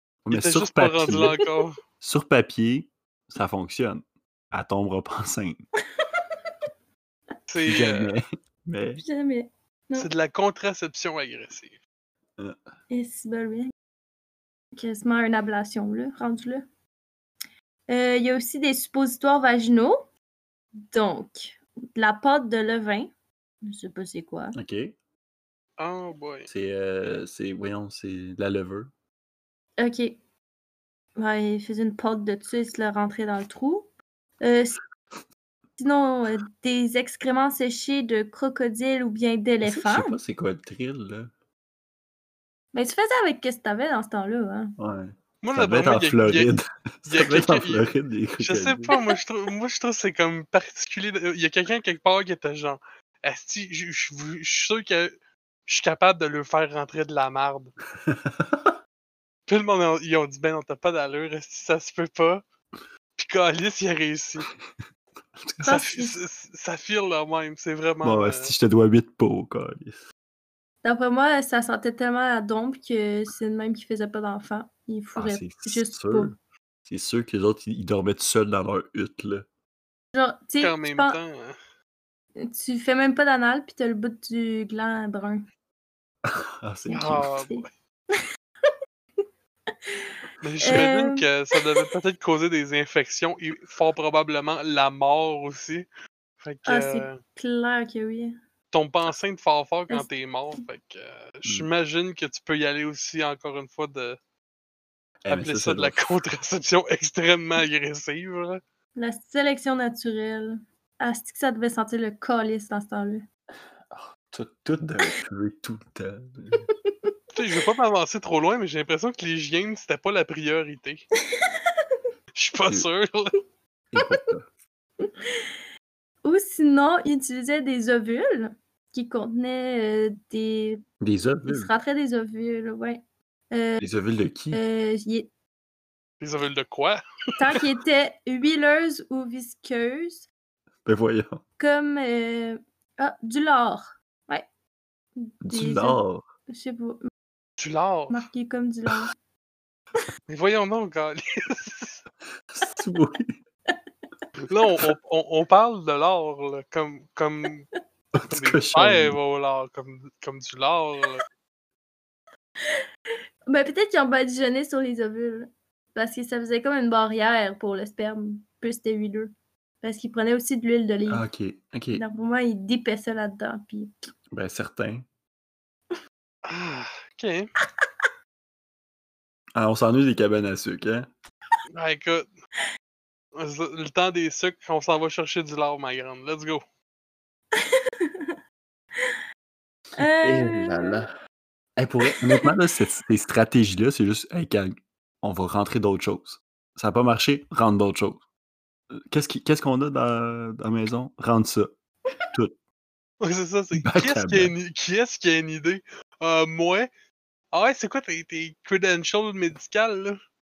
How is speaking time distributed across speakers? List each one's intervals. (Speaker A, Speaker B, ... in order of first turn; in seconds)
Speaker A: 0.2-1.4, 2.0-5.6, 7.6-9.0, 24.6-25.0, 26.5-28.9, 39.6-41.3, 44.8-48.9, 58.0-58.8, 65.4-65.8, 68.0-70.0, 75.2-76.4, 76.9-79.5, 86.2-87.3, 105.2-106.2, 113.9-116.7, 123.9-124.5, 131.0-131.7, 133.8-134.6, 140.8-141.4, 145.4-146.3, 152.5-153.3, 158.2-159.2, 171.1-172.0, 174.3-175.1, 179.6-181.1, 190.2-191.1, 191.8-198.2, 198.9-201.7, 203.8-204.5
Speaker B: 0.3-1.8, 7.5-8.2, 10.0-11.8, 25.8-26.5, 45.4-46.5, 47.1-47.9, 48.4-55.1, 55.7-57.7, 59.5-62.4, 63.2-64.5, 65.7-68.5, 80.6-81.6, 86.9-87.7, 90.4-95.9, 96.4-97.2, 98.7-104.2, 105.3-108.6, 117.3-121.1, 122.3-123.3, 136.2-137.0, 147.6-148.3, 150.3-152.0, 154.5-157.7, 158.3-161.2, 176.5-177.5, 181.8-182.3, 183.3-186.6, 203.2-206.9, 207.5-210.2
Speaker C: 9.0-10.1, 12.9-13.7, 14.8-16.6, 17.9-20.0, 20.9-23.1, 23.6-24.6, 29.8-30.2, 31.2-33.9, 34.4-34.8, 35.8-40.2, 42.7-44.8, 65.6-66.2, 70.8-76.3, 80.1-81.2, 82.4-85.5, 87.0-87.7, 90.6-91.8, 96.7-98.4, 109.0-113.3, 116.5-117.1, 121.3-121.7, 125.0-125.5, 126.2-130.8, 131.5-133.9, 134.5-135.3, 137.4-140.3, 141.6-144.4, 145.2-147.1, 148.1-149.1, 163.5-171.3, 171.9-174.1, 187.6-188.4, 190.0-191.1, 192.0-192.5